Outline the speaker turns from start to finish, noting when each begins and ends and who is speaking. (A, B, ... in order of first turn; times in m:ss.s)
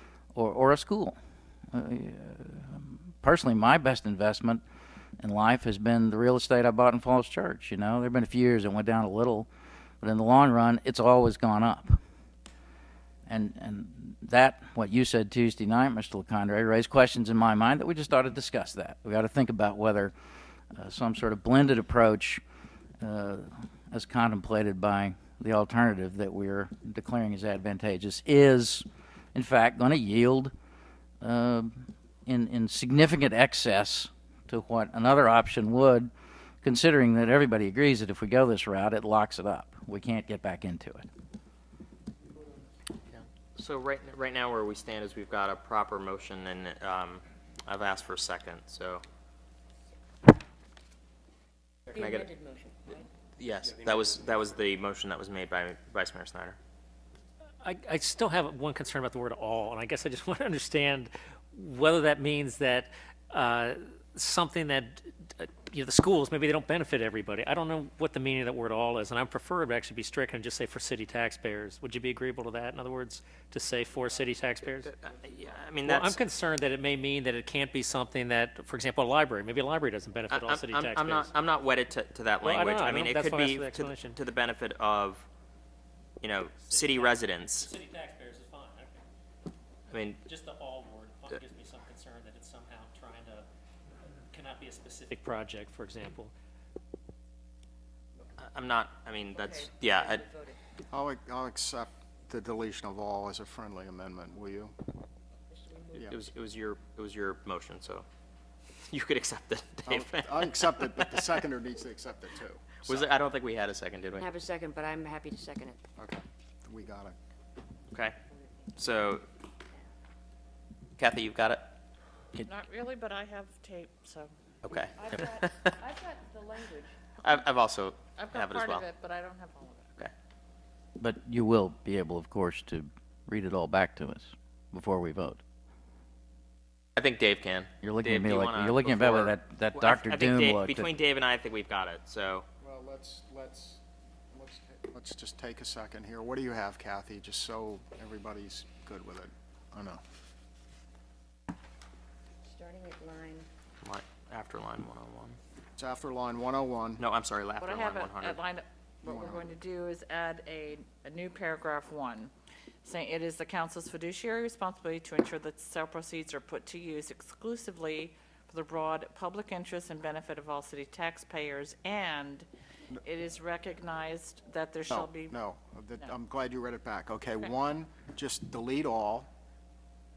0:00.4-0:01.2 A
0:01.7-0:04.6 A
0:05.2-0:09.5 A
0:10.0-0:12.0 A
0:13.3-0:20.1 A
0:20.7-0:22.4 A
0:23.0-0:30.5 A
0:31.2-0:36.1 A
0:36.6-0:41.1 A
0:43.1-0:49.0 B
0:51.9-0:52.3 B
0:51.9-0:53.0 C
0:53.4-0:56.6 B
0:57.6-1:15.0 D
1:14.9-1:16.2 B
1:15.8-1:21.3 D
1:20.3-1:25.3 B
1:22.4-1:24.2 D
1:26.2-1:27.7 B
1:26.6-1:29.0 D
1:29.9-1:30.2 B
1:30.2-1:33.5 D
1:34.3-1:36.3 D
1:38.4-1:40.2 B
1:39.4-1:40.6 C
1:40.9-1:44.8 E
1:45.5-1:45.9 C
1:45.9-1:48.1 B
1:48.9-1:51.4 B
1:49.9-1:52.8 E
1:52.8-1:54.3 B
1:54.2-1:55.8 C
1:56.0-1:57.2 E
1:57.9-1:58.2 B
1:58.8-1:59.3 B
2:01.0-2:01.8 B
2:02.4-2:04.3 F
2:04.6-2:05.7 B
2:04.8-2:07.0 C
2:07.2-2:08.9 B
2:08.2-2:10.0 F
2:11.0-2:15.4 A
2:17.0-2:22.4 B
2:17.8-2:20.9 A
2:22.6-2:30.0 E
2:32.5-2:33.5 C
2:33.8-2:35.4 B
2:35.8-2:37.0 E
2:37.0-2:38.4 B
2:37.6-2:42.3 F
2:39.1-2:39.5 E
2:42.8-2:52.5 F
2:53.0-2:55.4 F
2:54.9-2:59.3 E